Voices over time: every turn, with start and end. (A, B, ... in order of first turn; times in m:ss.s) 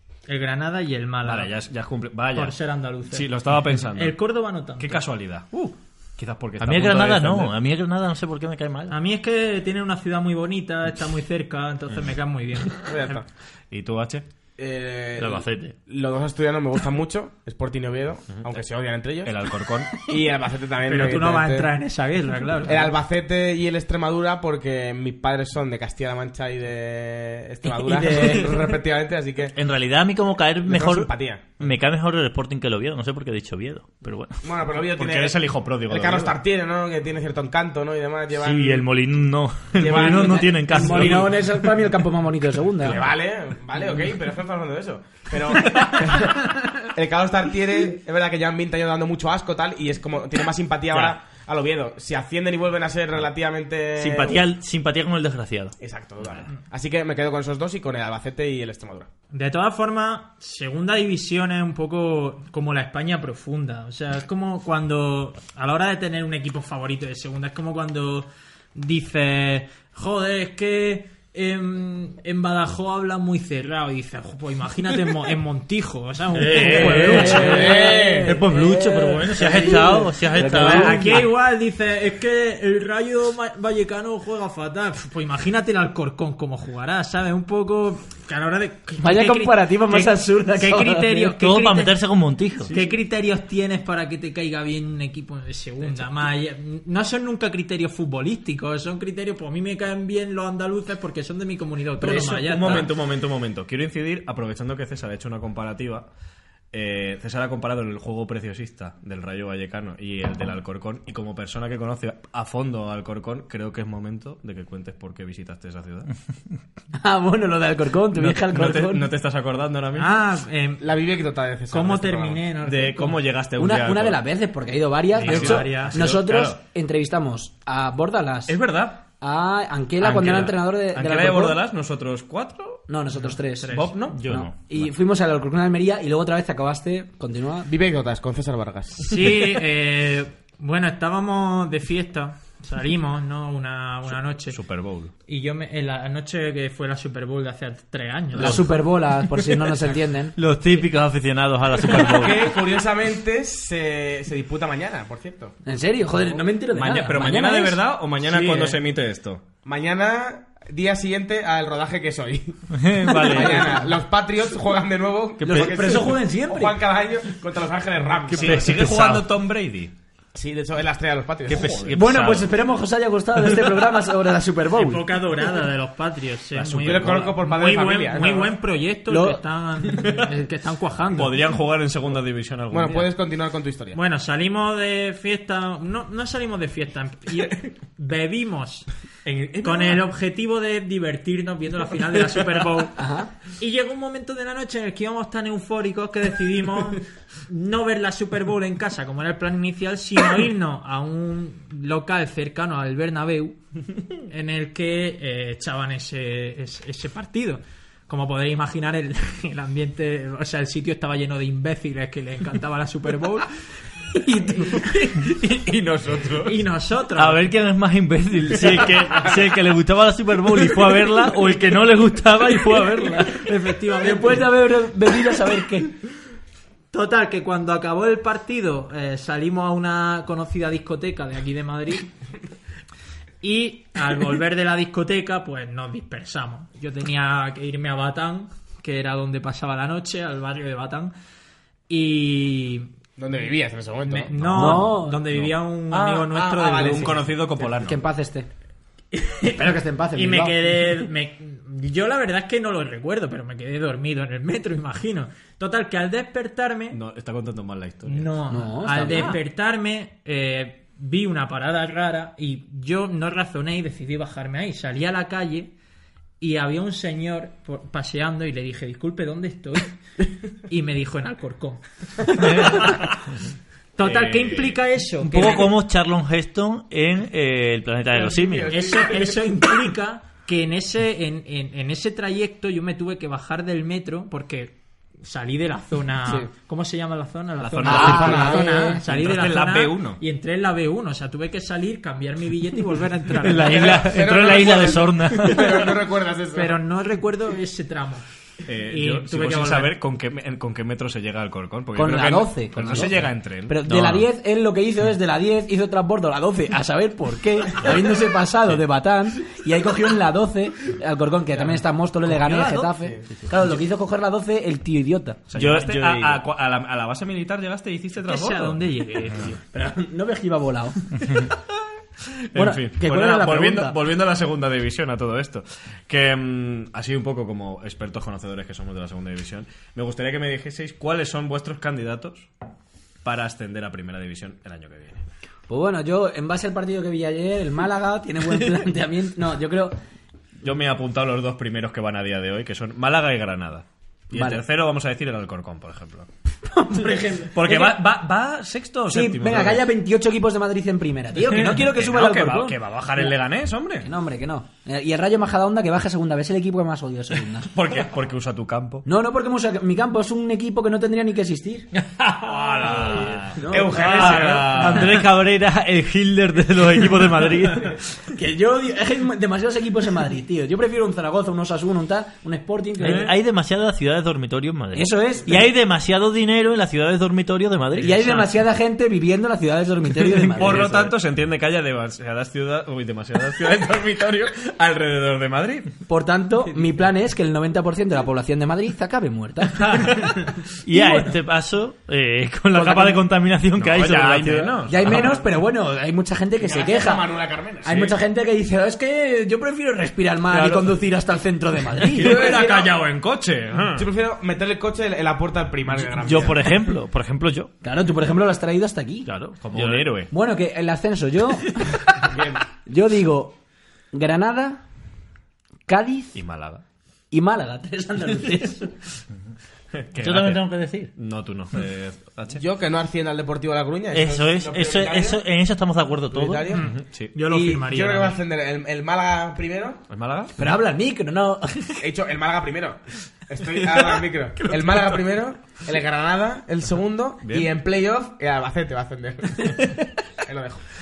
0:00.3-0:01.5 A
0:01.2-0:02.6 B
0:02.3-0:03.3 A
0:03.1-0:04.2 B
0:03.8-0:05.0 A
0:04.8-0:07.5 B
0:06.6-0:08.9 C
0:08.9-0:13.2 A
0:12.8-0:13.2 D
0:13.7-0:14.2 B
0:14.6-0:19.3 D
0:15.2-0:15.8 C
0:19.2-0:20.0 B
0:19.9-0:21.7 D
0:20.9-0:22.9 A
0:22.6-0:29.5 D
0:27.6-0:28.6 E
0:29.6-0:34.4 C
0:30.6-0:31.4 D
0:34.4-0:38.8 D
0:34.8-0:36.4 B
0:38.4-0:41.3 C
0:39.8-0:41.3 D
0:40.0-0:43.0 E
0:42.8-0:54.4 D
0:54.0-0:55.8 C
0:55.8-0:59.1 D
0:59.3-1:17.7 A
1:16.3-1:21.2 C
1:16.6-1:21.2 E
1:17.3-1:18.4 D
1:20.5-1:32.0 A
1:29.0-1:31.3 E
1:31.4-1:32.7 C
1:32.6-1:42.9 A
1:42.0-1:46.1 B
1:46.7-1:56.1 B
1:56.9-1:59.1 E
1:58.1-2:00.2 B
2:00.0-2:00.8 A
2:00.8-2:02.5 D
2:01.7-2:03.2 A
2:02.6-2:04.2 B
2:03.6-2:08.6 E
2:05.1-2:06.6 B
2:05.2-2:06.0 A
2:08.5-2:09.0 B
2:09.1-2:11.6 E
2:10.0-2:12.9 B
2:12.9-2:17.7 E
2:13.5-2:13.9 A
2:13.7-2:14.4 B
2:14.1-2:14.5 C
2:17.6-2:19.2 D
2:19.0-2:24.6 A
2:24.5-2:25.1 B
2:25.3-2:28.6 A
2:28.3-2:30.3 E
2:30.4-2:32.6 C
2:31.9-2:35.6 D
2:35.6-2:38.8 E
2:36.7-2:39.4 B
2:39.6-2:48.8 D
2:42.7-2:43.8 C
2:45.4-2:46.8 E
2:48.3-2:49.9 B
2:48.3-2:49.3 C
2:50.3-2:51.9 D
2:51.5-2:52.4 B
2:51.5-2:52.4 C
2:51.9-2:55.0 E
2:54.7-3:01.4 A
2:56.5-2:57.4 B
2:56.8-2:58.5 D
2:59.1-2:59.4 E
2:59.9-3:00.3 B
3:01.1-3:03.1 B
3:02.7-3:04.0 D
3:03.9-3:08.9 A
3:09.2-3:10.0 B
3:09.6-3:23.6 A
3:13.0-3:13.3 E
3:24.2-3:33.5 A
3:34.2-3:34.6 E
3:34.7-3:36.6 B
3:36.4-3:37.4 A
3:37.2-3:43.5 C
3:43.3-3:44.5 A
3:44.0-3:45.9 E
3:46.9-3:52.1 A
3:53.4-4:01.1 A
4:01.9-4:02.9 A
4:03.2-4:04.3 D
4:04.1-4:07.2 A
4:04.3-4:08.0 B
4:04.5-4:05.2 E
4:06.3-4:07.3 D
4:07.6-4:08.5 E
4:09.1-4:09.6 A
4:09.4-4:10.6 E
4:10.1-4:17.0 A
4:16.9-4:18.3 B
4:18.0-4:25.7 A
4:18.5-4:19.4 E
4:26.4-4:29.9 A
4:30.6-4:33.0 A
4:32.4-4:32.8 C
4:32.6-4:33.1 B
4:34.0-4:35.7 A
4:34.0-4:34.8 B
4:35.2-4:38.7 C
4:38.1-4:39.4 D
4:38.7-4:53.9 A
4:47.6-4:50.2 B
4:47.8-4:49.0 E
4:48.1-4:48.7 D
4:53.4-4:55.9 C
4:53.6-4:56.7 D
4:56.5-4:58.2 A
4:58.6-5:03.8 B
4:58.8-5:00.0 A
5:01.9-5:15.4 E
5:03.8-5:04.2 C
5:13.0-5:13.3 D
5:15.5-5:18.8 B
5:15.5-5:16.4 C
5:18.2-5:19.6 A
5:19.7-5:21.2 E
5:22.4-5:32.5 B
5:22.5-5:24.0 E
5:33.2-5:35.2 B
5:35.7-5:39.9 E
5:40.6-5:46.3 B
5:44.3-5:44.6 E
5:46.6-5:48.0 E
5:47.5-5:49.8 B
5:49.1-5:53.3 E
5:51.5-5:54.1 B
5:54.0-5:57.7 E
5:57.7-5:59.0 B
5:59.0-6:01.9 E
6:02.4-6:05.2 B
6:03.0-6:03.2 C
6:03.5-6:04.9 E
6:03.7-6:04.8 D
6:03.9-6:08.0 C
6:08.3-6:13.3 E
6:13.0-6:18.4 C
6:13.0-6:13.3 B
6:14.9-6:15.6 E
6:18.0-6:21.1 E
6:20.5-6:26.0 B
6:20.6-6:20.9 C
6:26.1-6:30.3 E
6:30.8-6:35.1 C
6:30.9-6:31.3 E
6:32.7-6:33.2 E
6:33.8-6:35.4 B
6:34.8-6:37.2 E
6:36.6-6:38.1 D
6:37.8-6:42.5 E
6:40.5-6:40.9 C
6:42.1-6:44.1 B
6:42.2-6:43.0 D
6:43.9-6:46.7 D
6:46.1-6:47.7 C
6:47.8-6:49.3 E
6:49.3-6:50.1 C
6:49.6-6:50.3 B
6:50.3-6:52.2 E
6:52.2-6:52.6 D
6:52.8-6:53.6 E
6:54.1-6:54.8 E
6:55.9-6:56.4 E
6:56.3-6:56.8 B
6:57.3-6:59.0 E
6:59.9-7:00.6 B
7:00.2-7:01.1 C
7:01.2-7:02.6 B
7:02.5-7:05.4 D
7:04.1-7:06.7 C
7:06.3-7:10.0 D
7:06.7-7:08.4 A
7:06.8-7:07.4 B
7:10.1-7:10.5 B
7:10.6-7:12.0 E
7:12.0-7:19.9 D
7:17.4-7:17.7 B
7:20.4-7:20.8 D